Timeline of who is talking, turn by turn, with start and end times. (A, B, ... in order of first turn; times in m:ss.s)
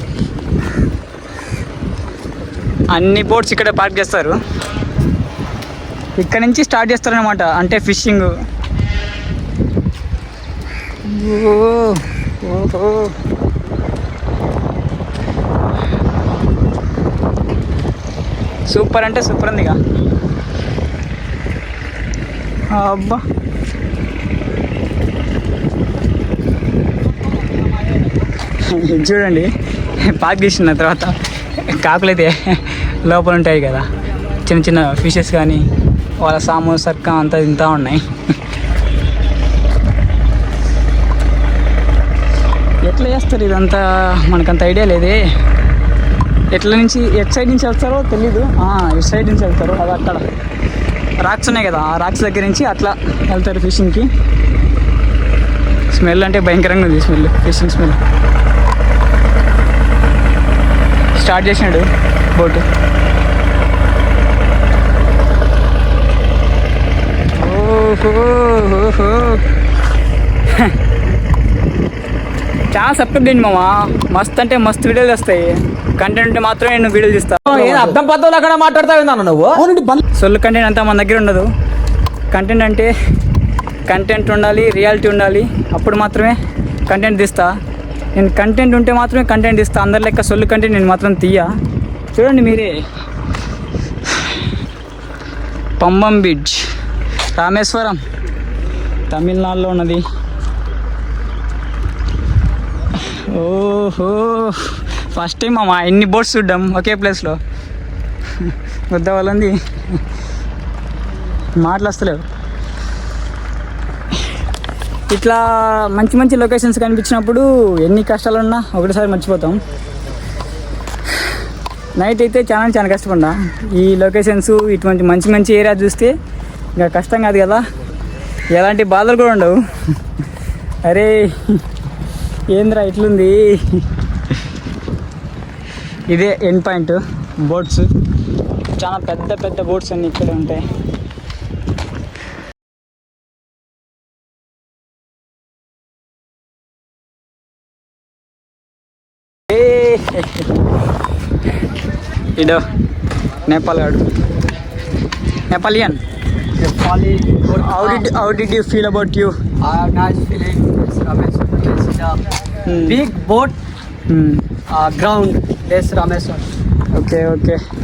0:02.9-0:04.4 A
0:06.2-0:08.3 A
0:11.0-0:13.1 A
0:18.7-0:19.8 A
0:22.7-0:23.2 A
0:28.6-0:33.9 A
0:34.4-0:35.6 A
0:36.2-0:38.1 A
0:42.8-0:45.2 A
0:46.5-0:50.2 A
0:51.2-0:54.1 A
0:55.9-0:58.0 A
1:01.1-1:02.6 A
1:07.3-1:09.4 A
1:10.5-1:10.7 A
1:12.7-1:18.0 A
1:17.5-1:20.0 B
1:20.1-1:21.5 A
1:22.3-1:22.9 A
1:23.9-1:27.5 A
1:28.1-1:31.5 A
1:32.1-1:32.7 A
1:35.8-1:36.6 A
1:37.3-1:38.0 A
1:39.1-1:40.0 A
1:42.9-1:47.4 A
1:48.4-1:50.0 A
1:51.6-1:52.2 A
1:55.1-1:59.6 A
2:02.0-2:06.1 A
2:06.8-2:07.6 A
2:08.5-2:09.6 A
2:10.8-2:11.6 A
2:12.5-2:13.8 A
2:16.1-2:17.9 A
2:18.8-2:20.6 A
2:29.5-2:30.4 A
2:32.4-2:32.6 A
2:33.4-2:34.0 A
2:35.5-2:36.0 A
2:36.6-2:38.1 C
2:37.5-2:39.3 A
2:39.6-2:42.2 C
2:42.6-2:43.0 A
2:42.8-2:43.6 C
2:44.1-2:44.4 A
2:44.7-2:46.4 C
2:46.9-2:47.6 A